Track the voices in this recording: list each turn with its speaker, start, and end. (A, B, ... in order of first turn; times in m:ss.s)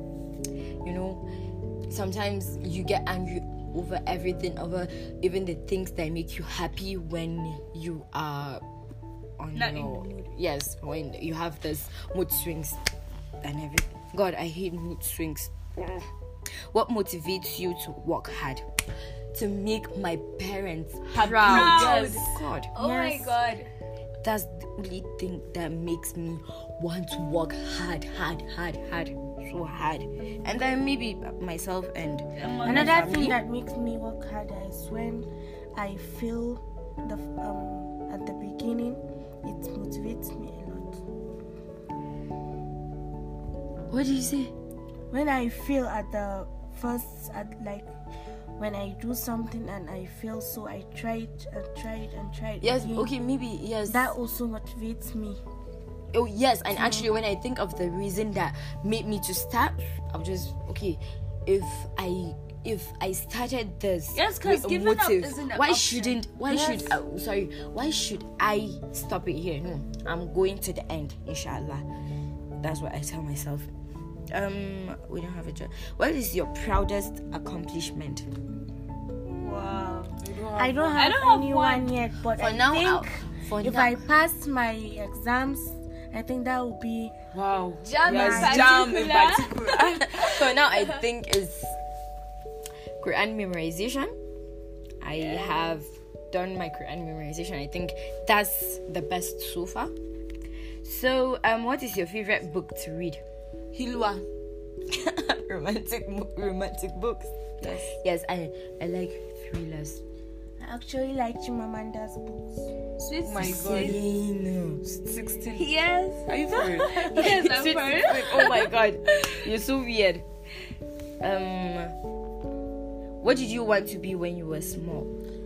0:00.8-0:01.2 A
0:01.9-0:08.6 A
0:09.4-0:12.8 A
0:09.5-0:10.3 B
0:13.4-0:16.0 A
0:16.7-0:18.6 A
0:19.3-0:22.7 A
0:21.1-0:22.2 C
0:21.4-0:23.7 B
0:22.8-0:23.3 D
0:24.2-0:33.4 A
0:32.4-0:33.4 B
0:32.6-0:41.0 D
0:43.9-0:44.5 A
0:45.1-0:47.9 D
0:48.6-0:53.1 D
0:52.6-0:54.1 A
0:53.9-0:55.4 D
0:56.1-1:11.8 A
0:56.7-0:57.1 D
1:04.1-1:06.2 B
1:12.6-1:13.7 A
1:14.3-1:18.3 A
1:19.2-1:27.1 D
1:20.2-1:21.0 C
1:20.9-1:21.9 B
1:22.4-1:24.0 A
1:27.3-1:30.3 C
1:27.8-1:29.9 B
1:28.0-1:28.6 D
1:29.9-1:31.7 A
1:30.6-1:31.0 B
1:33.0-1:34.1 A
1:35.0-1:39.9 A
1:35.1-1:35.8 B
1:40.8-1:43.2 A
1:43.7-1:44.2 C
1:44.9-1:47.3 A
1:47.6-1:47.9 C
1:48.0-1:50.0 A
1:50.6-1:52.7 D
1:53.0-1:54.0 B
1:53.2-1:54.0 C
1:53.4-1:55.0 A
1:55.0-1:55.7 C
1:55.5-1:58.7 B
1:56.3-1:58.6 C
1:57.2-2:00.2 A
2:01.2-2:01.9 A
2:03.2-2:05.1 A